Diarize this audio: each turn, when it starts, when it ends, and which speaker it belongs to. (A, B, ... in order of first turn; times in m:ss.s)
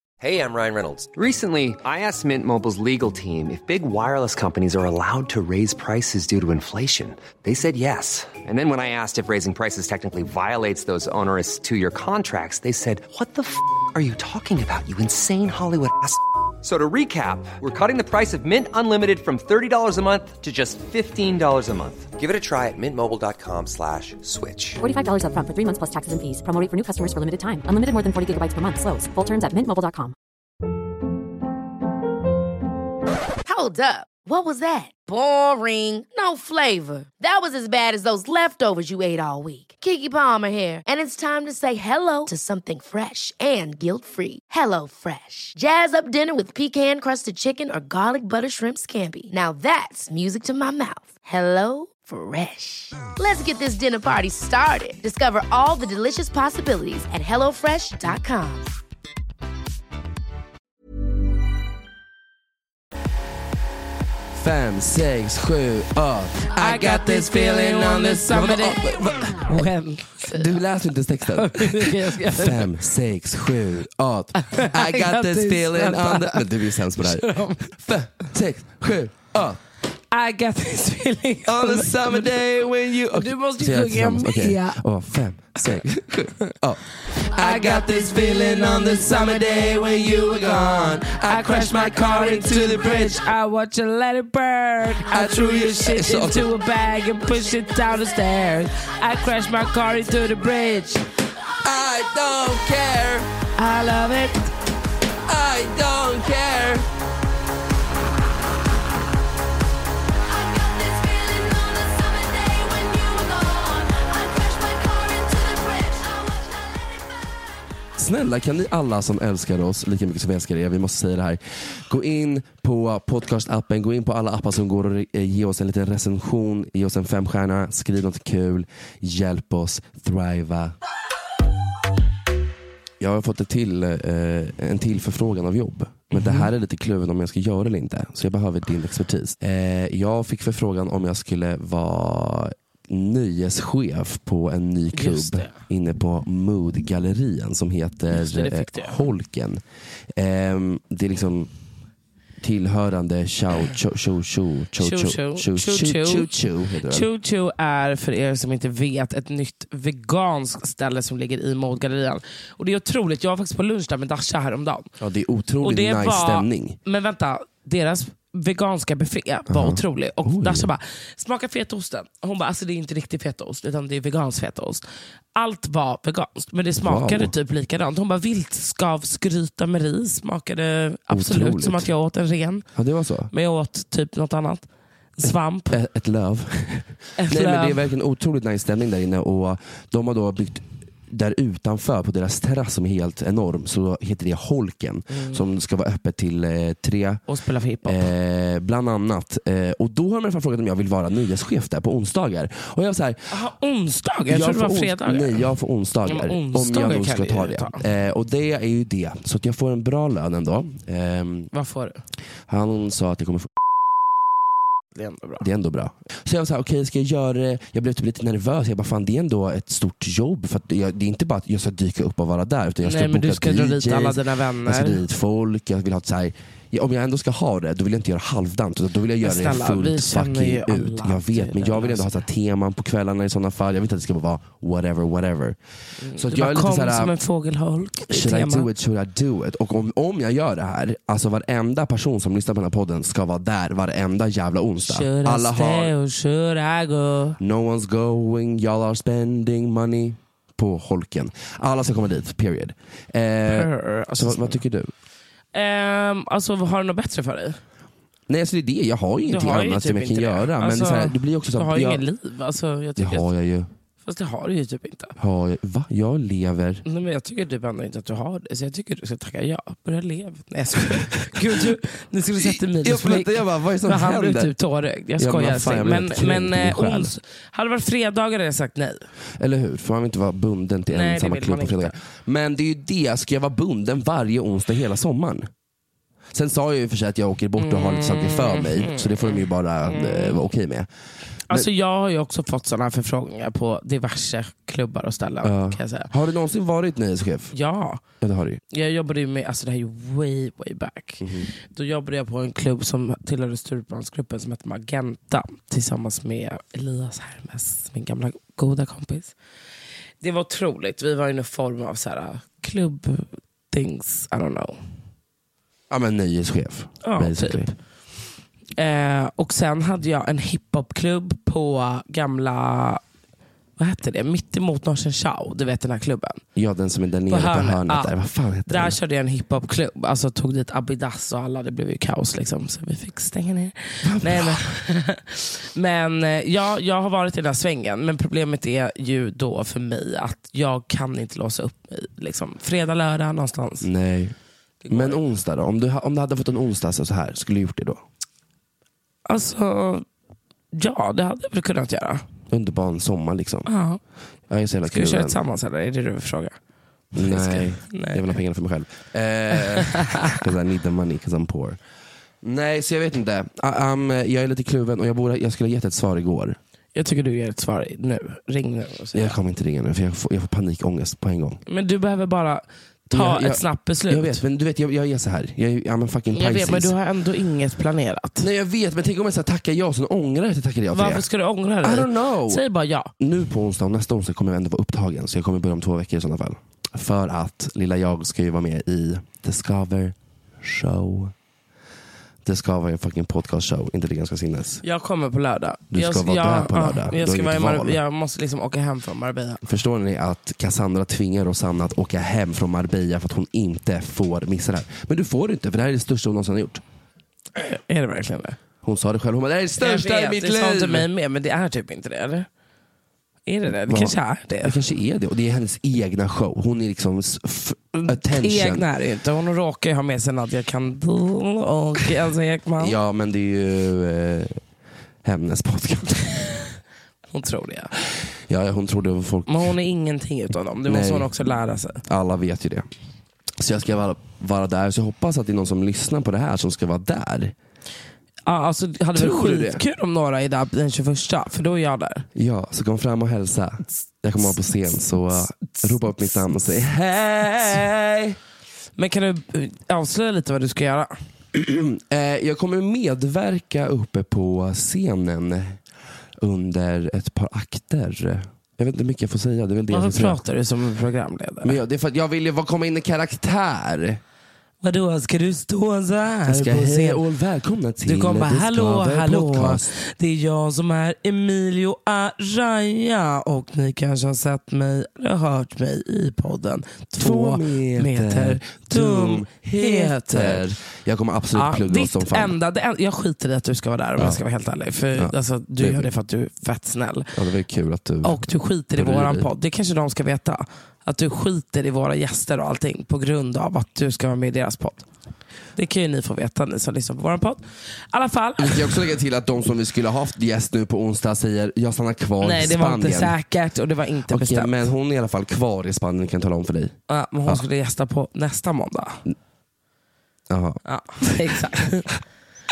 0:00.2-0:24.8 A
0:24.8-0:30.1 B
0:33.4-0:58.7 C
1:04.3-1:09.6 D
1:06.6-1:10.6 E
1:10.2-1:19.6 D
1:11.3-1:12.7 E
1:14.4-1:17.7 E
1:20.1-1:22.4 E
1:21.4-1:26.8 D
1:23.1-1:24.8 E
1:25.6-1:25.8 E
1:27.3-1:41.0 E
1:27.4-1:33.2 D
1:35.1-1:36.5 D
1:41.6-1:43.3 D
1:43.6-1:44.5 E
1:45.2-1:46.9 D
1:58.0-2:10.7 D
2:13.0-2:29.6 D
2:16.1-2:16.5 E
2:24.9-2:25.6 E
2:28.1-2:29.0 E
2:30.2-2:31.5 D
2:32.4-2:37.1 D
2:34.8-2:36.3 E
2:36.9-2:44.9 E
2:45.0-2:46.8 D
2:45.6-2:54.8 E
2:49.5-2:50.7 D
2:55.4-3:02.7 E
2:56.8-2:57.3 D
3:01.1-3:01.9 D
3:02.7-3:03.3 D
3:03.3-3:05.8 E
3:05.7-3:17.2 D
3:07.2-3:07.8 E
3:15.1-3:15.4 E
3:17.3-3:18.1 E
3:17.8-3:23.3 D
3:23.3-3:25.5 E
3:24.3-3:31.5 D
3:26.0-3:27.8 E
3:31.5-3:32.0 E
3:32.5-3:33.5 D
3:34.9-3:35.4 E
3:35.4-3:55.6 D
3:42.8-3:45.0 E
3:49.2-3:52.2 E
3:56.0-3:58.7 E
3:56.1-3:57.1 D
3:58.1-4:05.9 D
4:04.8-4:07.4 E
4:07.4-4:14.9 D
4:13.4-4:14.6 E
4:15.5-4:17.6 E
4:18.3-4:22.0 D
4:19.2-4:23.3 E
4:23.0-4:23.7 D
4:24.0-4:25.1 E
4:25.2-4:26.8 D
4:26.8-4:39.1 E
4:31.0-4:31.4 D
4:32.4-4:34.5 D
4:35.2-4:37.1 D
4:39.4-4:45.5 D
4:40.9-4:42.0 E
4:46.3-4:50.9 D
4:47.6-4:50.5 E
4:51.5-4:56.1 E
4:55.4-4:57.5 D
4:57.5-4:58.0 E
4:58.2-4:58.6 D
4:58.7-5:09.3 E
5:01.2-5:01.5 D
5:10.2-5:14.8 E
5:15.9-5:17.7 D
5:17.0-5:17.7 E
5:18.8-5:23.0 E
5:23.8-5:26.4 E
5:26.5-5:29.0 D
5:27.3-5:28.1 E
5:28.7-5:43.9 E
5:34.0-5:34.7 D
5:43.8-5:44.4 D
5:44.8-5:45.2 E
5:44.9-5:48.0 D
5:49.2-5:50.0 E
5:50.7-5:52.2 E
5:52.5-5:53.7 D
5:53.7-5:54.0 E
5:54.5-5:55.4 D
5:54.9-5:56.6 E
5:57.1-5:58.2 E
5:57.1-6:01.8 D
5:59.5-6:00.4 E
6:02.4-6:06.6 D
6:06.9-6:09.4 E
6:09.1-6:11.6 D
6:11.7-6:14.4 E
6:13.1-6:16.9 D
6:16.3-6:18.4 E
6:18.4-6:21.2 D
6:20.9-6:23.1 E
6:21.8-6:22.6 D
6:23.2-6:31.3 D
6:32.4-6:34.8 D
6:34.8-6:39.6 E
6:35.9-6:38.0 D
6:39.6-6:46.8 D
6:47.5-6:48.6 E
6:48.8-6:51.1 D
6:49.8-6:52.5 E
6:53.4-6:54.8 E
6:53.9-6:58.9 D
6:58.0-7:03.0 E
7:02.8-7:04.6 D
7:05.2-7:06.2 D
7:07.3-7:07.9 E
7:08.5-7:09.7 D
7:09.5-7:12.0 E
7:10.9-7:11.3 D
7:12.0-7:12.9 D
7:13.6-7:17.5 D
7:18.4-7:22.3 E
7:19.1-7:19.8 D
7:22.4-7:28.4 D
7:25.6-7:26.7 E
7:29.0-7:31.1 E
7:31.5-7:35.8 D
7:36.4-7:40.4 D
7:39.9-7:41.8 E
7:41.6-7:44.2 D
7:44.8-7:47.2 E
7:46.5-7:49.9 D
7:48.0-8:00.6 E
7:57.2-8:02.6 D
8:01.5-8:07.3 E
8:05.2-8:06.1 D
8:07.4-8:09.5 D
8:08.2-8:15.1 E
8:15.8-8:19.0 E
8:18.6-8:23.4 D
8:22.4-8:24.9 E
8:24.3-8:27.6 D
8:27.1-8:29.2 E
8:30.5-8:31.5 D
8:30.8-8:32.2 E